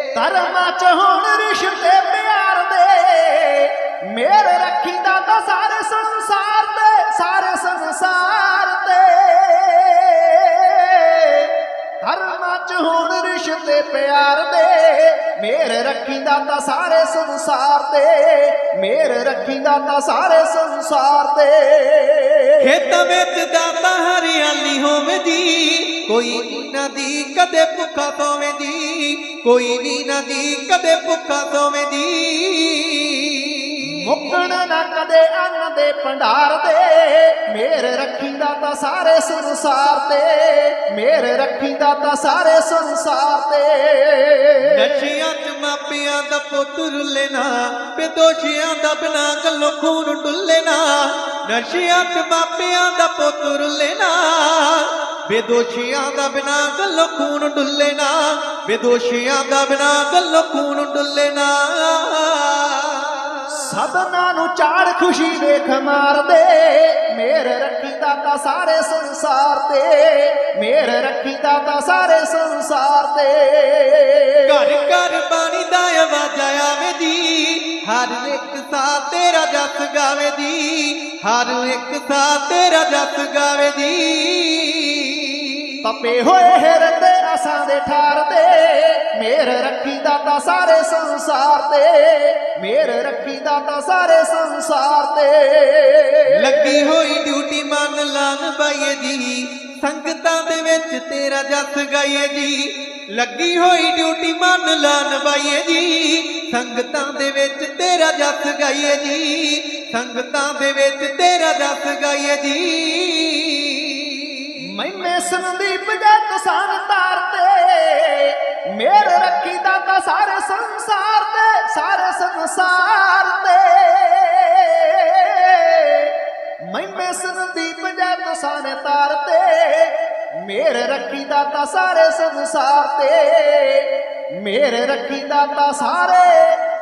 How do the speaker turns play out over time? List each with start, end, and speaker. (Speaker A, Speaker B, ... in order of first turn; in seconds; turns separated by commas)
Speaker A: 0.1-22.7, Speaker B: 22.6-34.4, Speaker A: 33.8-45.1, Speaker B: 44.6-63.7, Speaker A: 63.5-74.7, Speaker B: 74.4-85.8, Speaker A: 85.8-96.7, Speaker B: 96.2-114.6, Speaker A: 114.6-136.6